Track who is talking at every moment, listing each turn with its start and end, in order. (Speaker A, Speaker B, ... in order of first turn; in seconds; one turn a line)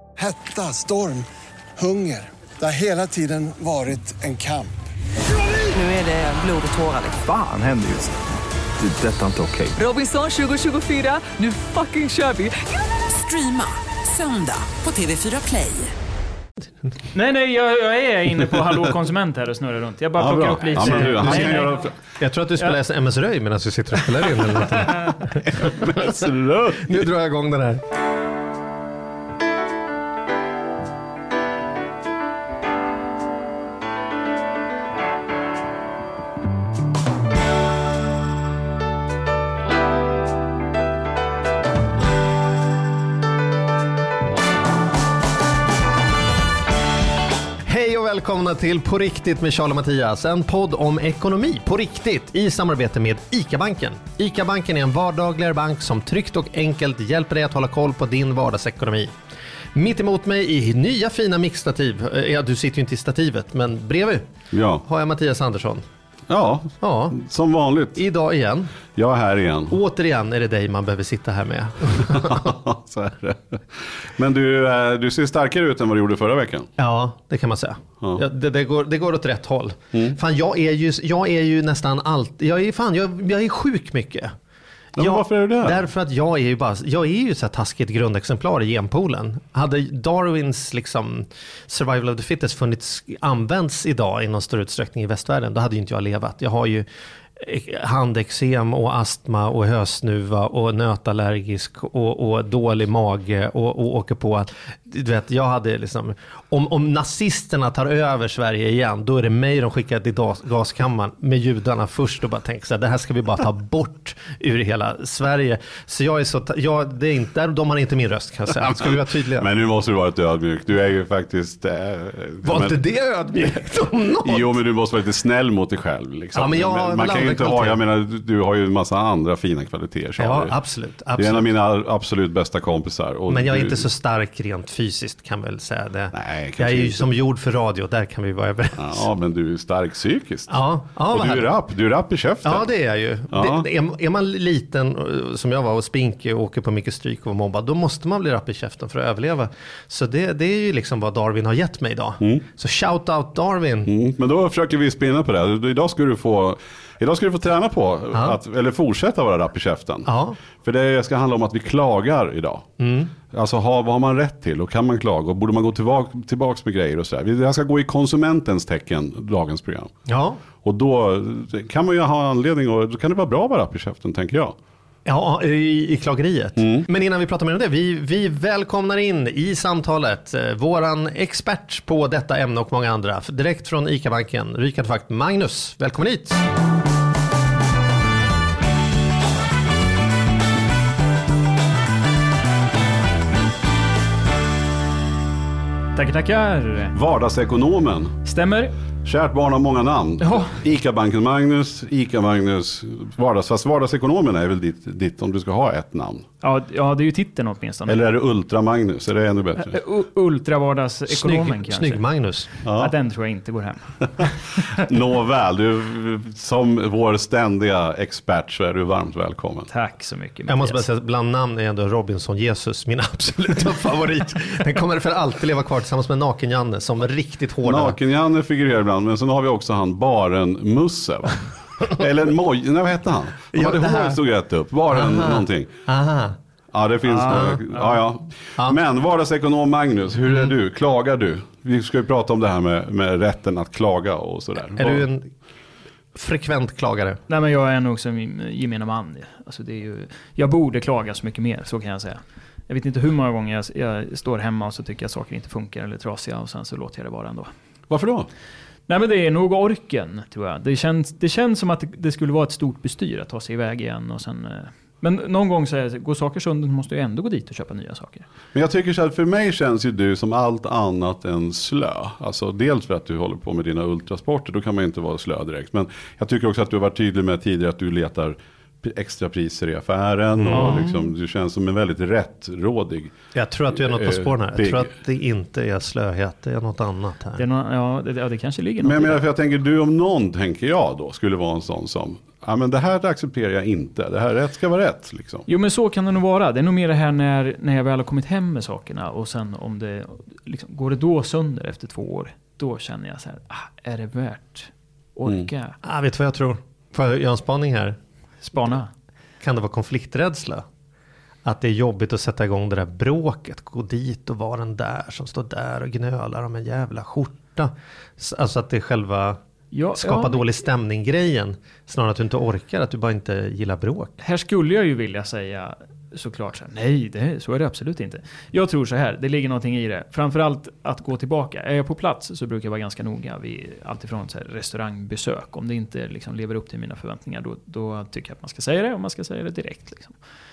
Speaker A: 0.2-1.3
Speaker A: 1.8-4.7
Speaker B: 5.7-7.2
Speaker C: 7.2-8.1
Speaker C: 8.8-9.8
Speaker B: 9.8-15.9
Speaker D: 17.1-21.8
Speaker E: 20.2-21.9
Speaker F: 20.8-27.8
Speaker E: 25.3-27.1
Speaker F: 47.6-59.1
Speaker F: 59.7-64.3
Speaker E: 64.5-64.8
Speaker F: 64.8-65.8
Speaker E: 66.3-68.0
Speaker F: 66.8-67.2
Speaker F: 68.0-68.8
Speaker E: 69.0-69.8
Speaker F: 69.7-72.6
Speaker E: 72.1-76.7
Speaker F: 76.8-84.3
Speaker E: 85.0-85.8
Speaker F: 85.0-119.5
Speaker E: 119.4-122.8
Speaker F: 122.4-124.6
Speaker E: 124.2-130.6
Speaker F: 126.3-127.8
Speaker F: 130.2-131.5
Speaker E: 131.2-133.9
Speaker F: 133.3-139.1
Speaker E: 136.1-137.1
Speaker E: 138.8-142.7
Speaker F: 140.5-141.5
Speaker F: 142.4-153.9
Speaker E: 143.3-143.7
Speaker E: 153.9-162.7
Speaker F: 160.1-160.4
Speaker F: 162.8-163.1
Speaker E: 163.3-170.0
Speaker F: 170.1-170.4
Speaker E: 170.6-174.6
Speaker F: 175.1-186.4
Speaker E: 176.6-176.9
Speaker D: 195.9-196.9
Speaker E: 196.9-198.2
Speaker D: 198.2-198.7
Speaker E: 199.0-206.3
Speaker D: 200.2-200.6
Speaker D: 206.4-208.0
Speaker E: 207.9-209.8
Speaker D: 209.6-212.0
Speaker F: 211.1-212.5
Speaker E: 212.7-212.9
Speaker D: 212.8-214.8
Speaker E: 214.2-219.7
Speaker D: 219.7-220.8
Speaker F: 220.5-228.0
Speaker E: 227.7-235.7
Speaker F: 233.5-234.2
Speaker F: 234.9-236.4
Speaker E: 236.7-245.0
Speaker D: 237.1-237.9
Speaker F: 237.3-237.6
Speaker F: 244.8-245.3
Speaker F: 246.1-247.2
Speaker D: 247.3-257.5
Speaker E: 257.9-258.3
Speaker D: 258.9-268.3
Speaker E: 268.5-283.1
Speaker F: 280.4-280.9
Speaker D: 280.5-281.1
Speaker F: 283.3-287.4
Speaker E: 283.8-284.9
Speaker D: 287.4-289.2
Speaker E: 288.8-295.5
Speaker D: 295.5-305.8
Speaker F: 305.8-308.0
Speaker D: 308.4-308.9
Speaker F: 309.4-310.6
Speaker F: 311.4-319.4
Speaker D: 319.7-320.4
Speaker F: 320.0-324.2
Speaker D: 324.2-340.2